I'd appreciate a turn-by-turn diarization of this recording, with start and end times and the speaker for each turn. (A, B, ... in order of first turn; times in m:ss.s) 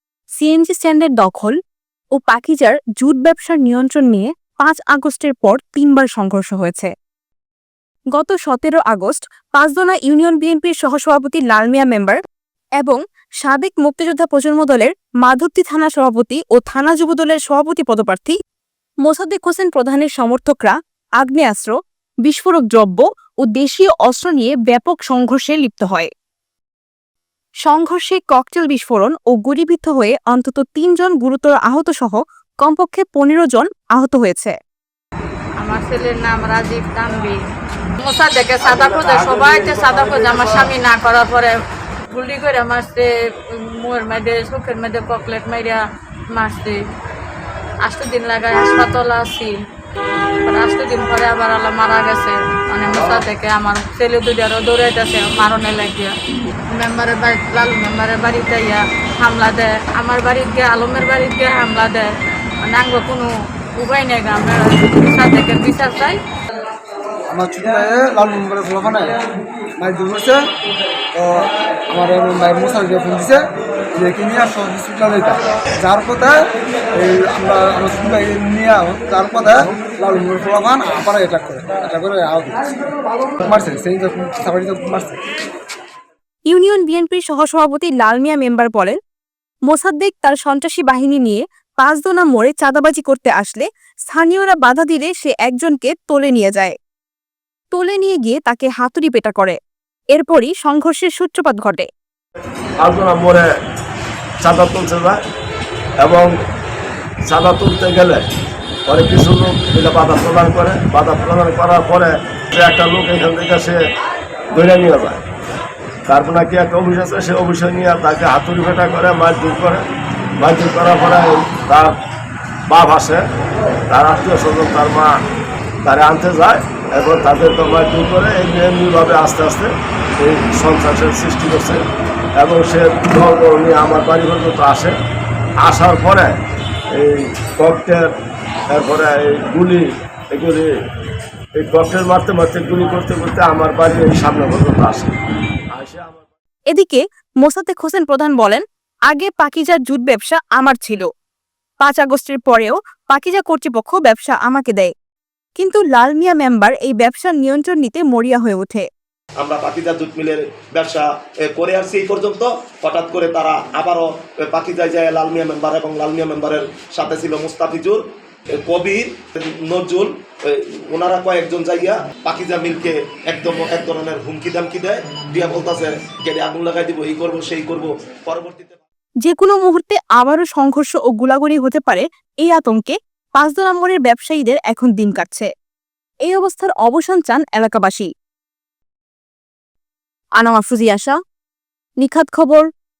0:00.4-0:01.6 A
0:02.2-0:06.9 A
0:08.1-0:12.2 A
0:12.8-0:18.4 A
0:19.0-0:21.7 A
0:22.2-0:26.1 A
0:27.6-0:34.5 A
0:35.6-0:37.4 B
0:38.0-0:41.5 B
0:38.7-0:40.2 C
0:42.1-0:45.8 B
0:46.3-0:46.8 B
0:47.8-0:49.5 B
0:50.4-0:56.1 B
0:56.7-1:02.1 B
1:02.6-1:06.2 B
1:07.3-1:09.1 D
1:09.8-1:10.4 D
1:11.2-1:13.4 D
1:14.0-1:16.4 D
1:17.0-1:22.7 D
1:23.4-1:25.2 D
1:26.5-1:29.0 A
1:29.7-1:36.7 A
1:37.7-1:39.6 A
1:40.1-1:41.9 A
1:42.8-1:43.4 C
1:44.4-1:45.2 C
1:46.0-1:46.3 C
1:47.2-1:48.2 C
1:48.9-1:53.8 C
1:54.5-1:55.2 C
1:56.1-1:59.8 C
2:00.4-2:02.0 C
2:02.7-2:03.2 C
2:03.9-2:05.1 C
2:05.8-2:11.8 C
2:12.4-2:14.9 C
2:15.6-2:16.3 C
2:16.9-2:18.0 C
2:18.7-2:20.7 C
2:21.6-2:25.1 C
2:25.7-2:26.3 C
2:26.7-2:31.1 A
2:31.8-2:34.9 A
2:35.6-2:38.8 A
2:39.4-2:48.0 E
2:48.6-2:58.8 E
2:59.2-3:05.5 A
3:06.2-3:08.1 A
3:10.4-3:11.2 A
3:12.0-3:12.7 A